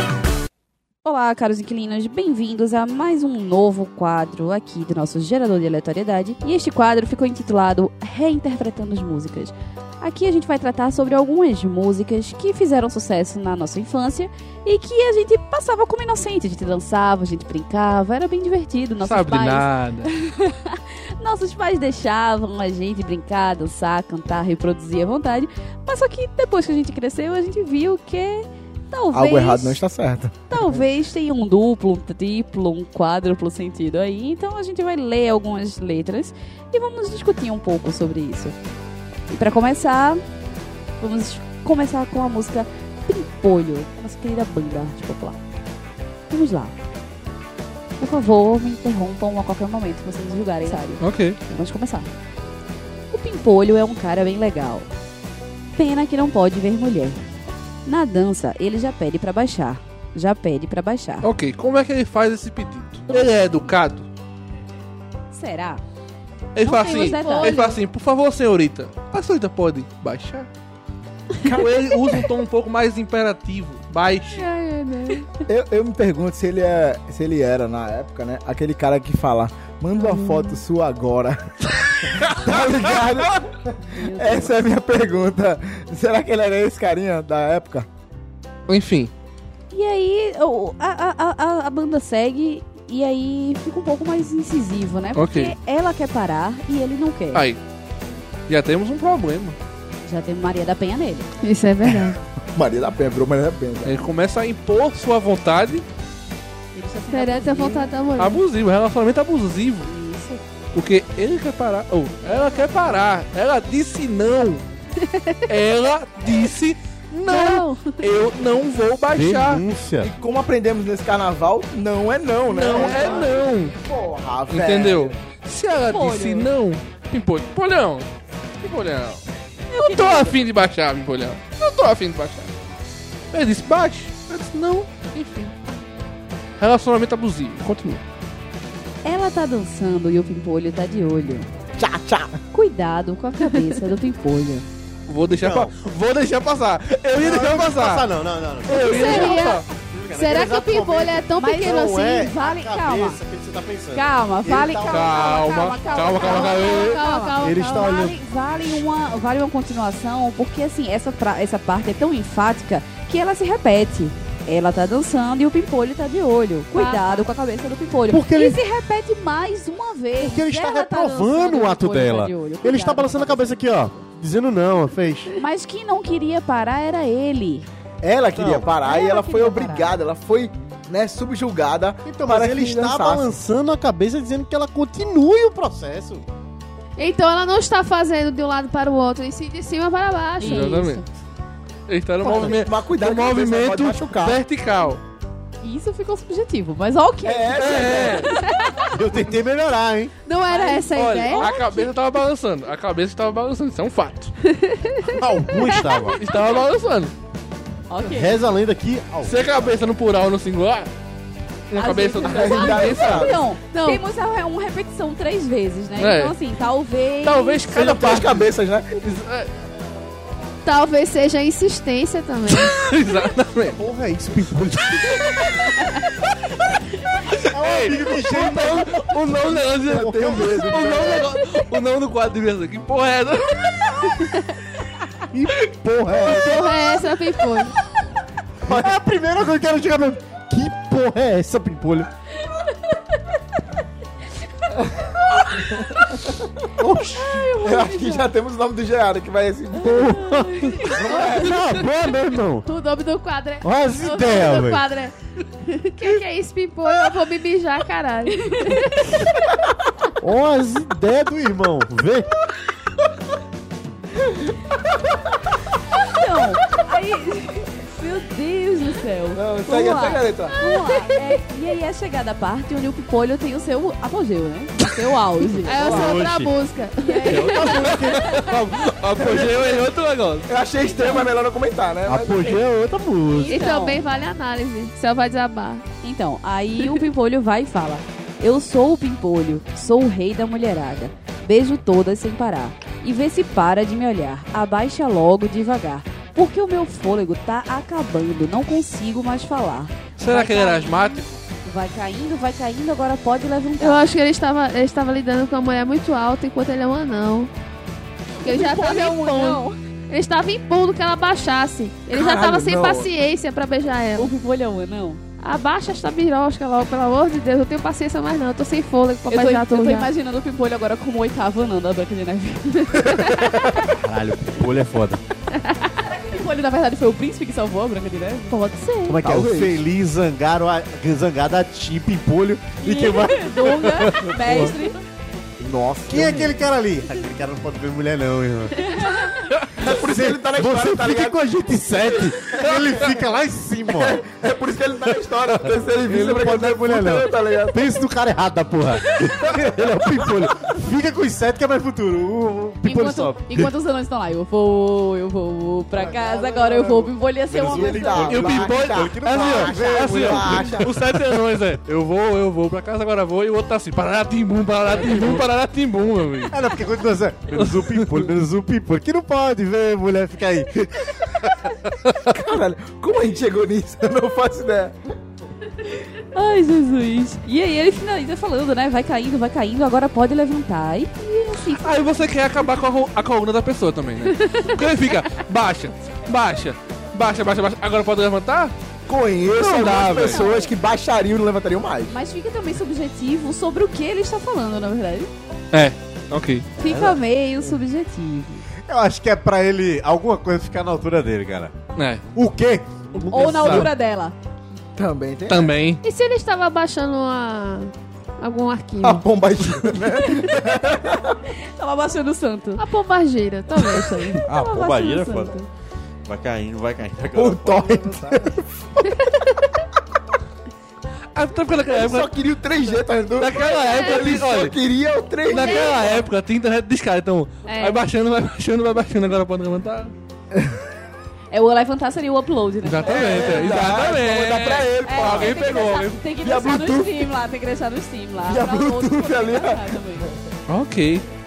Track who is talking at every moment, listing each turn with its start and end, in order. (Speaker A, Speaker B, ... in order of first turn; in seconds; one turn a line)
Speaker A: 1.0-29.8
Speaker B: 19.0-20.1
Speaker C: 29.1-30.7
Speaker A: 30.5-38.5
Speaker A: 39.3-40.2
Speaker A: 41.0-45.4
Speaker A: 46.3-46.7
Speaker A: 48.0-52.1
Speaker B: 51.0-51.4
Speaker A: 53.1-54.9
Speaker A: 55.7-57.2
Speaker A: 57.9-61.3
Speaker B: 61.2-64.1
Speaker A: 65.3-65.8
Speaker B: 66.5-70.5
Speaker A: 66.6-67.7
Speaker D: 66.8-67.8
Speaker B: 71.5-74.5
Speaker D: 74.3-75.3
Speaker C: 75.5-81.4
Speaker D: 79.9-80.6
Speaker B: 82.2-82.8
Speaker C: 82.2-83.4
Speaker A: 83.9-84.5
Speaker C: 84.0-87.9
Speaker B: 88.7-89.1
Speaker A: 89.7-97.4
Speaker B: 95.1-95.5
Speaker B: 97.3-97.6
Speaker B: 98.5-99.6
Speaker A: 100.0-101.3
Speaker D: 101.4-102.2
Speaker C: 102.5-103.9
Speaker B: 103.8-105.8
Speaker A: 106.7-107.9
Speaker D: 107.1-108.4
Speaker B: 108.2-109.9
Speaker A: 109.8-110.4
Speaker B: 110.7-114.6
Speaker A: 112.2-112.6
Speaker A: 115.0-115.4
Speaker B: 115.5-119.6
Speaker A: 117.2-118.0
Speaker E: 119.1-120.1
Speaker C: 120.0-125.1
Speaker B: 122.5-123.7
Speaker B: 124.5-128.1
Speaker A: 125.9-126.5
Speaker B: 128.6-129.2
Speaker A: 129.7-130.3
Speaker B: 129.8-132.5
Speaker B: 133.3-135.5
Speaker B: 136.6-138.0
Speaker A: 139.0-141.5
Speaker C: 141.8-142.3
Speaker A: 142.5-144.7
Speaker B: 145.1-148.1
Speaker E: 145.4-145.7
Speaker E: 147.2-156.3
Speaker B: 148.7-149.6
Speaker D: 148.7-152.1
Speaker A: 151.4-153.2
Speaker A: 153.9-173.6
Speaker B: 154.9-157.0
Speaker D: 155.1-158.0
Speaker E: 157.4-158.2
Speaker D: 166.7-167.2
Speaker E: 168.1-168.6
Speaker E: 170.2-175.3
Speaker A: 175.3-177.7
Speaker C: 178.0-183.2
Speaker E: 178.3-178.7
Speaker A: 178.8-179.9
Speaker E: 182.0-186.2
Speaker D: 187.0-191.0
Speaker A: 190.4-191.0
Speaker B: 190.4-191.0
Speaker B: 191.9-195.0
Speaker C: 192.2-194.4
Speaker A: 195.6-198.8
Speaker C: 197.2-198.3
Speaker B: 197.6-198.3
Speaker E: 198.9-200.1
Speaker D: 200.2-201.9
Speaker A: 200.5-201.5
Speaker B: 200.9-204.3
Speaker E: 205.1-206.2
Speaker B: 206.2-207.1
Speaker A: 207.9-208.3
Speaker E: 208.0-209.6
Speaker B: 209.2-210.9
Speaker A: 211.7-217.7
Speaker B: 211.8-213.4
Speaker D: 211.9-214.0
Speaker C: 212.2-213.4
Speaker B: 216.0-216.3
Speaker B: 217.2-219.5
Speaker C: 217.7-218.9
Speaker D: 220.6-222.8
Speaker B: 222.5-223.8
Speaker E: 223.7-225.3
Speaker B: 225.2-225.6
Speaker B: 227.3-234.2
Speaker E: 227.5-230.8
Speaker C: 229.8-231.3
Speaker E: 235.3-236.9
Speaker D: 236.3-237.7
Speaker E: 238.6-242.1
Speaker C: 238.7-238.9
Speaker E: 246.8-247.5
Speaker A: 247.2-248.3
Speaker C: 247.6-250.1
Speaker E: 249.8-252.7
Speaker A: 249.8-251.3
Speaker D: 250.9-251.5
Speaker C: 251.1-251.6
Speaker D: 252.6-255.1
Speaker E: 253.6-254.8
Speaker D: 255.7-258.8
Speaker A: 258.5-259.2
Speaker E: 260.2-262.3
Speaker A: 265.9-276.2
Speaker C: 269.4-270.6
Speaker D: 275.6-277.6
Speaker E: 275.8-276.5
Speaker A: 277.0-278.5
Speaker E: 277.3-278.4
Speaker B: 277.4-280.5
Speaker C: 279.2-279.8
Speaker C: 280.5-282.6
Speaker A: 280.8-281.3
Speaker E: 282.1-283.6
Speaker D: 283.4-285.8
Speaker A: 283.5-284.0
Speaker A: 286.0-304.1
Speaker B: 300.2-301.4
Speaker D: 303.8-307.5
Speaker A: 308.4-309.8
Speaker D: 308.4-314.3
Speaker C: 312.1-313.1
Speaker A: 314.1-315.2
Speaker D: 315.4-320.1
Speaker A: 319.2-323.7
Speaker E: 323.7-325.2
Speaker A: 326.0-329.1
Speaker E: 329.1-334.7
Speaker C: 329.2-329.8
Speaker A: 332.8-335.0
Speaker C: 335.6-336.6
Speaker E: 336.1-339.0
Speaker A: 338.9-339.4
Speaker E: 339.8-344.2
Speaker C: 339.8-341.4
Speaker C: 342.4-343.1
Speaker C: 343.9-347.8
Speaker E: 346.0-353.7
Speaker A: 352.8-358.2
Speaker E: 355.9-361.1
Speaker C: 357.5-360.9
Speaker B: 358.2-366.6
Speaker E: 364.9-365.4
Speaker E: 366.5-371.7
Speaker B: 367.5-368.3
Speaker C: 372.3-374.9
Speaker A: 376.2-382.3
Speaker B: 381.8-388.7
Speaker C: 389.1-392.1
Speaker B: 389.5-390.4
Speaker A: 390.1-390.7
Speaker A: 392.1-395.3
Speaker B: 395.7-396.7
Speaker A: 396.8-398.6
Speaker E: 398.9-401.7
Speaker B: 401.9-402.2
Speaker E: 402.3-403.9
Speaker B: 403.3-403.9
Speaker A: 403.3-404.3
Speaker C: 404.9-405.7
Speaker B: 405.5-406.0
Speaker D: 406.0-409.2
Speaker C: 409.0-411.4
Speaker A: 411.8-412.8
Speaker D: 412.8-414.8
Speaker A: 414.4-415.6
Speaker E: 414.5-415.6
Speaker E: 416.2-418.6
Speaker C: 417.3-418.6
Speaker B: 421.3-422.3
Speaker C: 421.9-425.9
Speaker B: 423.3-424.7
Speaker D: 423.6-424.3
Speaker B: 425.5-430.1
Speaker D: 425.5-426.2
Speaker D: 427.7-428.0
Speaker A: 431.5-433.7
Speaker B: 432.8-436.2
Speaker C: 433.1-435.5
Speaker A: 435.0-440.3
Speaker C: 436.4-437.3
Speaker C: 438.4-440.3
Speaker B: 440.7-441.2